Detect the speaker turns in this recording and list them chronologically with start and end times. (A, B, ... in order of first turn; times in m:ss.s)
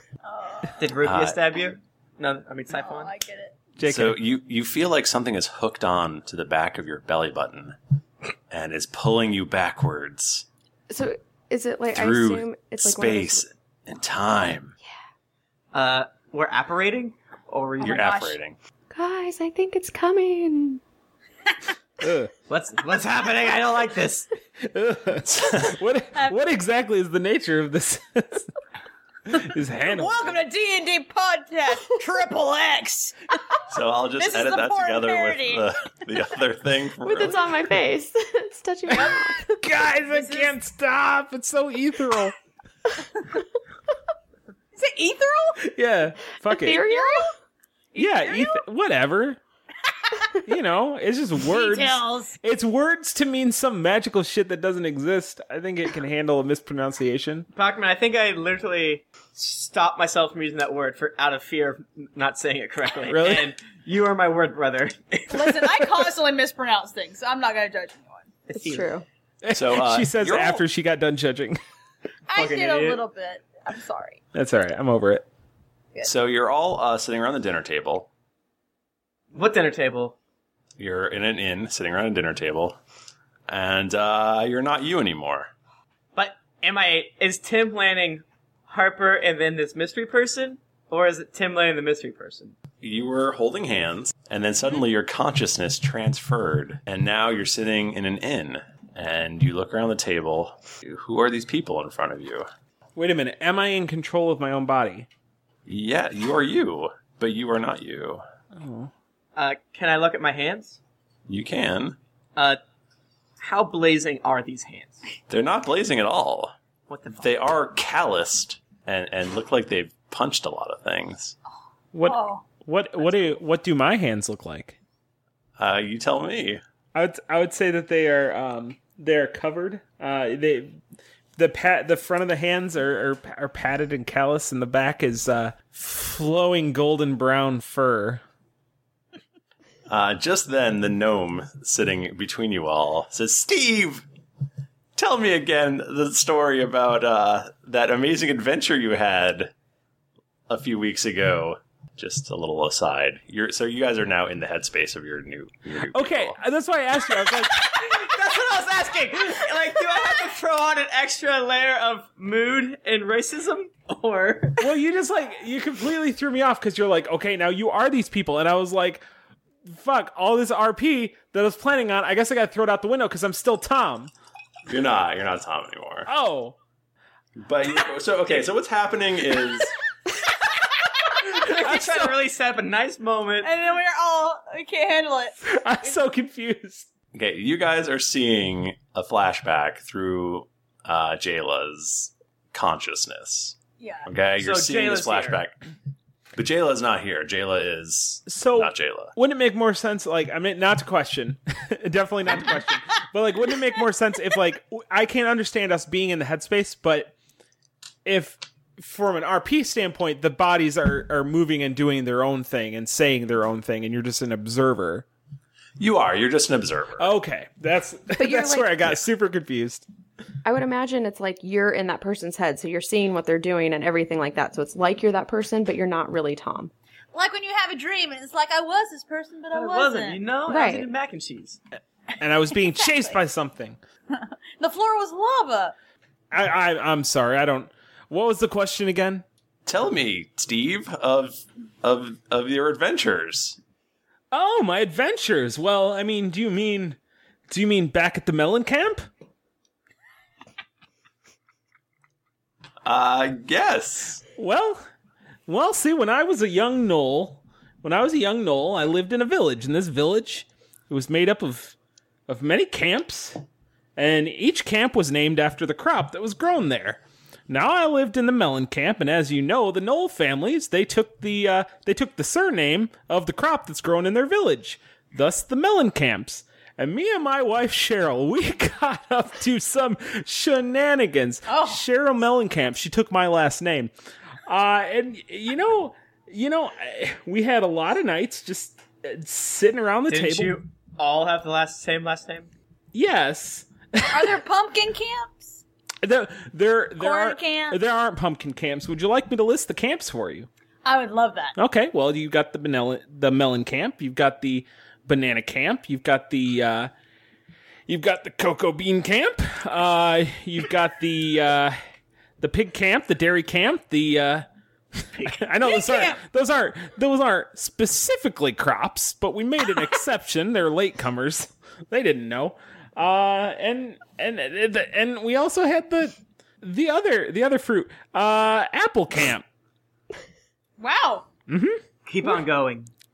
0:00.2-0:01.0 A
0:00.8-0:03.1 B
0:01.0-0:01.4 C
0:02.7-0:03.5 A
0:03.8-0:04.2 D
0:03.8-0:07.8 C
0:08.5-0:10.5 C
0:10.9-0:13.4 E
0:11.9-0:14.7 C
0:15.7-0:18.2 B
0:17.8-0:18.4 A
0:17.8-0:18.6 C
0:18.9-0:20.8 E
0:22.0-0:22.3 D
0:22.5-0:24.3 B
0:24.6-0:28.5 D
0:29.3-0:30.4 D
0:29.9-0:33.6 A
0:33.7-0:37.5 C
0:34.2-0:35.7 A
0:37.0-0:39.6 E
0:38.9-0:39.3 A
0:39.6-0:42.3 D
0:40.1-0:40.5 A
0:44.8-0:45.6 A
0:45.6-0:46.8 D
0:46.5-0:47.3 E
0:46.8-0:47.3 A
0:47.9-0:48.6 A
0:48.0-0:49.4 D
0:50.4-0:57.5 D
0:51.4-0:52.4 A
0:57.5-1:05.6 B
1:03.1-1:03.5 D
1:05.3-1:08.3 A
1:08.5-1:08.9 B
1:08.6-1:09.0 E
1:09.4-1:11.6 D
1:09.5-1:10.6 C
1:12.3-1:14.2 A
1:12.3-1:13.0 B
1:14.3-1:15.2 D
1:16.0-1:18.1 C
1:19.3-1:20.2 B
1:20.8-1:22.8 C
1:23.5-1:25.5 C
1:26.2-1:32.6 B
1:32.8-1:42.5 C
1:43.0-1:45.1 D
1:45.7-1:48.2 C
1:48.6-1:48.9 D
1:49.4-1:50.8 B
1:51.3-1:52.0 C
1:53.4-1:55.0 B
1:55.3-1:56.5 C
1:56.9-1:57.3 B
1:57.2-2:01.4 C
2:01.9-2:04.8 D
2:02.0-2:02.4 A
2:03.0-2:03.4 A
2:05.6-2:06.6 C
2:06.9-2:10.8 D
2:11.4-2:18.2 D
2:19.9-2:24.0 C
2:25.0-2:29.5 C
2:30.5-2:36.4 C
2:35.9-2:37.6 D
2:37.7-2:44.6 B
2:44.6-2:49.0 D
2:49.7-2:54.1 D
2:54.7-2:56.1 C
2:56.1-2:56.6 D
2:57.4-2:59.7 C
3:01.2-3:03.5 B
3:01.5-3:02.1 D
3:03.4-3:05.4 A
3:05.4-3:06.9 D
3:07.1-3:15.6 C
3:13.8-3:14.1 A
3:14.4-3:15.4 B
3:16.4-3:19.1 C
3:18.3-3:27.1 D
3:28.0-3:35.0 D
3:35.8-3:37.1 C
3:37.0-3:39.8 D
3:38.2-3:38.8 E
3:40.4-3:46.7 E
3:47.1-3:50.2 A
3:49.5-3:51.6 B
3:50.5-3:50.9 E
3:52.2-3:53.8 D
3:54.1-3:55.7 A
3:56.3-3:59.2 D
3:59.7-4:03.6 C
4:04.3-4:07.0 D
4:07.5-4:09.1 D
4:12.8-4:14.2 C
4:14.4-4:14.8 D
4:15.5-4:21.7 D
4:22.3-4:23.4 D
4:24.0-4:43.9 D
4:41.5-4:41.8 A
4:44.5-4:50.6 D
4:50.1-4:52.5 B
4:52.9-4:54.3 D
4:54.1-4:55.6 A
4:56.0-5:00.5 D
4:57.0-4:57.8 A
5:00.8-5:01.5 A
5:01.6-5:06.9 D
5:07.9-5:11.8 D
5:12.4-5:14.5 D
5:15.3-5:29.4 D
5:15.6-5:16.2 A
5:30.8-5:31.3 A
5:31.5-5:31.8 D
5:32.1-5:32.9 B